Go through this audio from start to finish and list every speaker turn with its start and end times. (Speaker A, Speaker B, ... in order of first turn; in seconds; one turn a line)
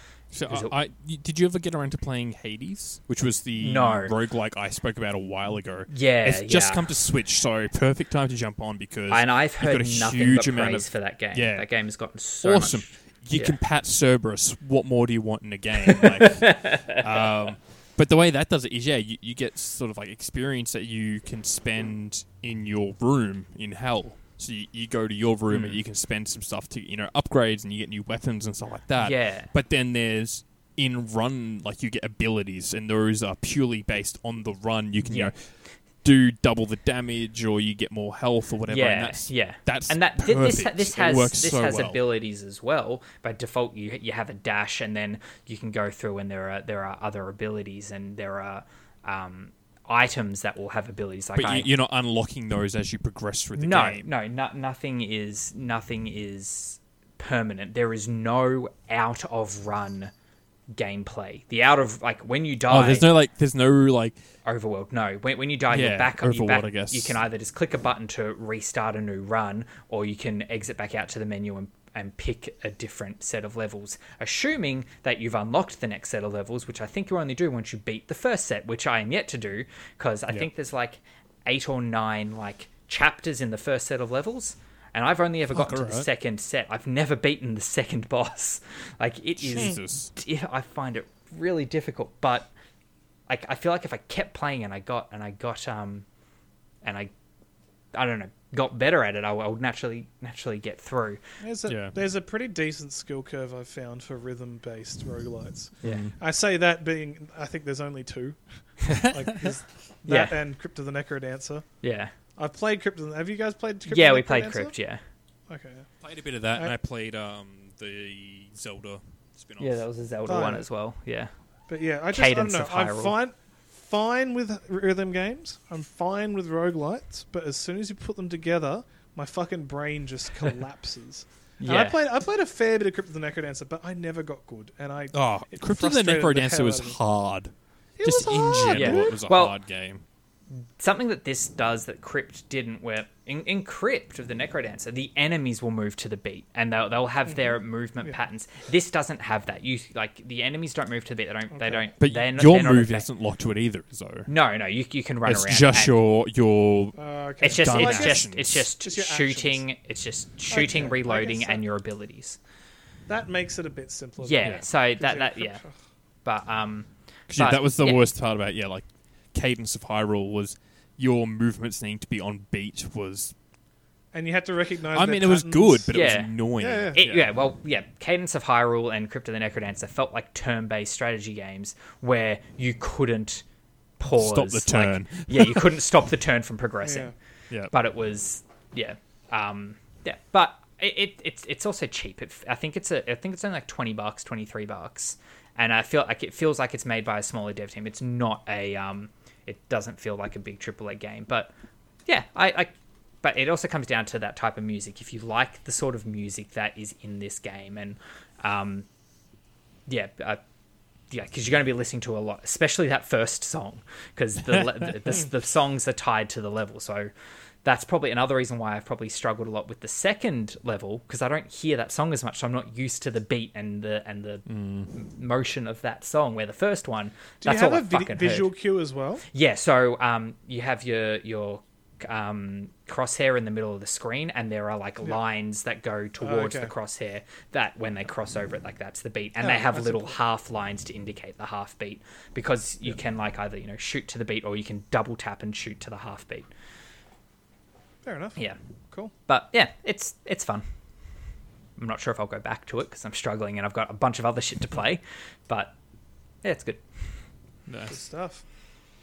Speaker A: 0.3-11.7
Speaker B: 0.5-0.7
Speaker B: 3.6-4.1
Speaker B: 5.9-6.9
Speaker B: 9.1-13.6
Speaker A: 12.4-42.0
Speaker B: 16.5-16.9
Speaker B: 25.5-25.8
Speaker B: 29.0-29.5
Speaker B: 35.0-35.3
Speaker B: 38.7-51.7
Speaker A: 51.4-54.0
Speaker B: 53.6-60.1
Speaker B: 60.7-63.1
Speaker A: 62.7-64.2
Speaker B: 64.4-92.5
Speaker A: 65.7-67.2
Speaker A: 85.5-86.1
Speaker A: 89.4-90.1
Speaker B: 93.3-96.0
Speaker B: 96.8-97.1
Speaker B: 97.9-101.2
Speaker C: 101.4-111.7
Speaker A: 101.7-101.9
Speaker A: 105.8-106.1
Speaker A: 108.9-109.5
Speaker B: 110.1-110.3
Speaker B: 111.8-112.1
Speaker C: 112.4-114.7
Speaker B: 113.9-115.0
Speaker C: 115.5-115.9
Speaker A: 116.0-119.8
Speaker B: 119.6-121.3
Speaker C: 120.2-120.7
Speaker C: 121.7-137.0
Speaker B: 122.1-123.1
Speaker B: 131.6-132.0
Speaker A: 135.1-140.0
Speaker C: 138.0-139.2
Speaker B: 138.7-139.6
Speaker B: 140.8-153.1
Speaker C: 151.5-151.9
Speaker A: 152.0-154.3
Speaker B: 154.3-155.9
Speaker A: 155.2-158.7
Speaker C: 156.9-159.6
Speaker B: 157.4-162.4
Speaker C: 160.5-161.6
Speaker C: 163.1-165.7
Speaker B: 164.2-165.6
Speaker B: 166.2-168.0
Speaker A: 167.3-173.3
Speaker C: 174.1-175.9
Speaker A: 174.9-177.3
Speaker B: 175.9-176.4
Speaker C: 176.6-177.0
Speaker B: 176.9-183.4
Speaker B: 184.0-187.1
Speaker A: 184.1-185.6
Speaker C: 186.8-187.1
Speaker B: 187.7-201.5
Speaker B: 202.1-208.9
Speaker B: 209.9-210.4
Speaker B: 211.1-217.1
Speaker B: 217.6-228.5
Speaker A: 224.5-224.9
Speaker C: 227.4-229.2
Speaker B: 229.3-246.5
Speaker C: 236.2-236.7
Speaker C: 239.4-240.2
Speaker C: 248.0-249.1
Speaker B: 249.3-250.6
Speaker B: 251.8-255.7
Speaker B: 256.4-257.1
Speaker A: 257.7-258.0
Speaker C: 257.9-258.4